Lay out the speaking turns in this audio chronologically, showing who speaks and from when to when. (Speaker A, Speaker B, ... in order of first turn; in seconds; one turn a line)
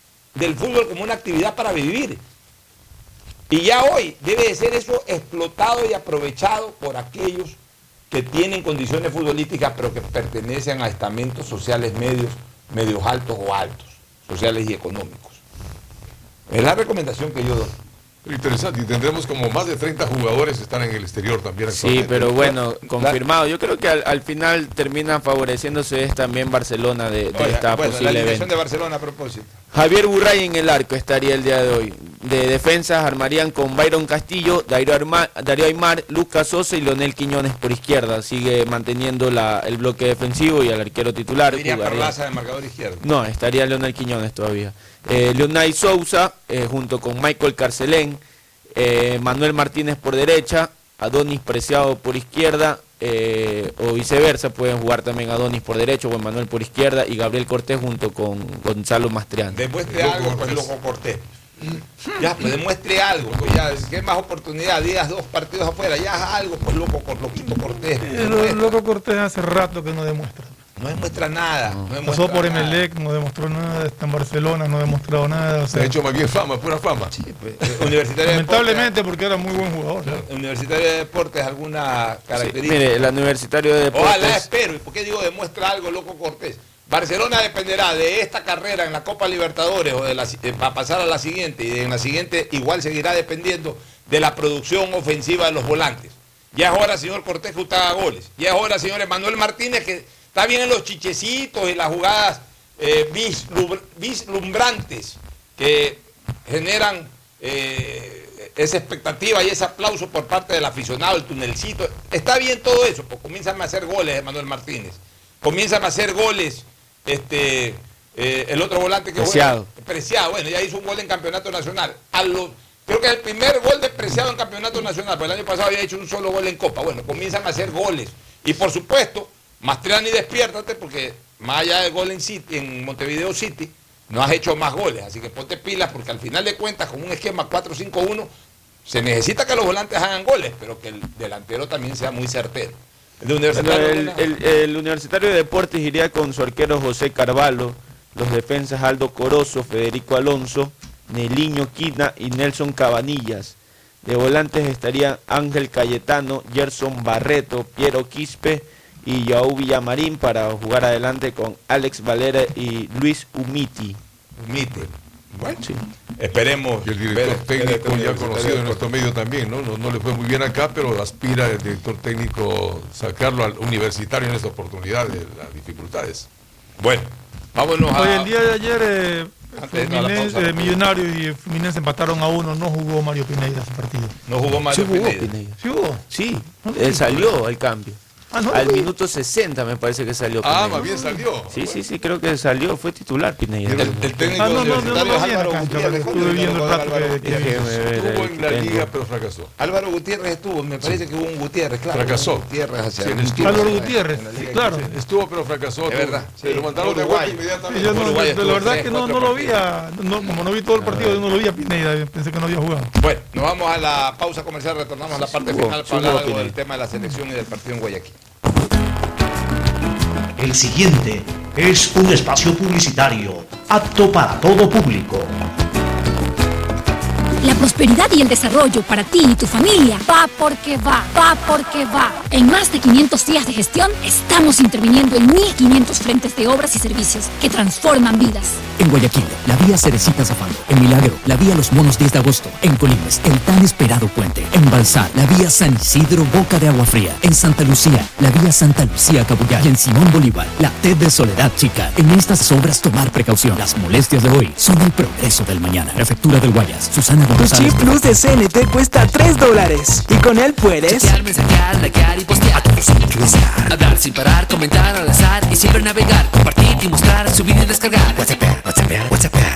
Speaker A: 0.3-2.2
Speaker A: 3.5-7.6
Speaker A: 8.1-15.4
Speaker A: 16.5-17.8
Speaker B: 18.3-22.5
Speaker C: 21.7-28.5
Speaker A: 22.9-23.2
Speaker A: 27.3-29.6
Speaker C: 29.7-42.2
Speaker A: 41.5-43.0
Speaker C: 43.0-48.2
Speaker C: 48.8-59.7
Speaker A: 59.5-61.3
Speaker B: 59.8-60.7
Speaker A: 62.2-68.8
Speaker B: 63.2-63.9
Speaker D: 68.0-70.6
Speaker A: 70.8-72.8
Speaker D: 72.0-75.9
Speaker B: 75.7-77.1
Speaker A: 77.1-78.9
Speaker D: 78.2-80.2
Speaker A: 80.1-83.1
Speaker C: 82.3-84.5
Speaker A: 83.9-138.3
Speaker C: 119.2-119.7
Speaker A: 138.9-144.3
Speaker C: 143.5-164.0
Speaker A: 164.4-168.8
Speaker C: 165.6-165.9
Speaker B: 166.8-176.3
Speaker A: 176.8-178.3
Speaker D: 177.9-184.2
Speaker A: 179.6-180.8
Speaker A: 184.3-185.3
Speaker C: 184.7-185.6
Speaker D: 185.6-186.1
Speaker C: 186.1-188.0
Speaker D: 186.6-187.1
Speaker D: 188.3-188.9
Speaker C: 188.5-194.4
Speaker B: 190.4-191.9
Speaker B: 193.7-195.1
Speaker A: 194.3-197.4
Speaker D: 194.3-197.7
Speaker C: 197.2-198.9
Speaker B: 197.4-199.5
Speaker A: 199.6-204.8
Speaker B: 201.9-203.8
Speaker D: 203.4-204.9
Speaker B: 204.5-208.8
Speaker A: 205.9-209.6
Speaker D: 207.7-212.9
Speaker A: 213.0-218.2
Speaker C: 215.1-216.6
Speaker E: 220.4-225.4
Speaker F: 227.4-238.6
Speaker G: 238.8-258.0
Speaker H: 257.4-261.1
Speaker I: 260.9-269.4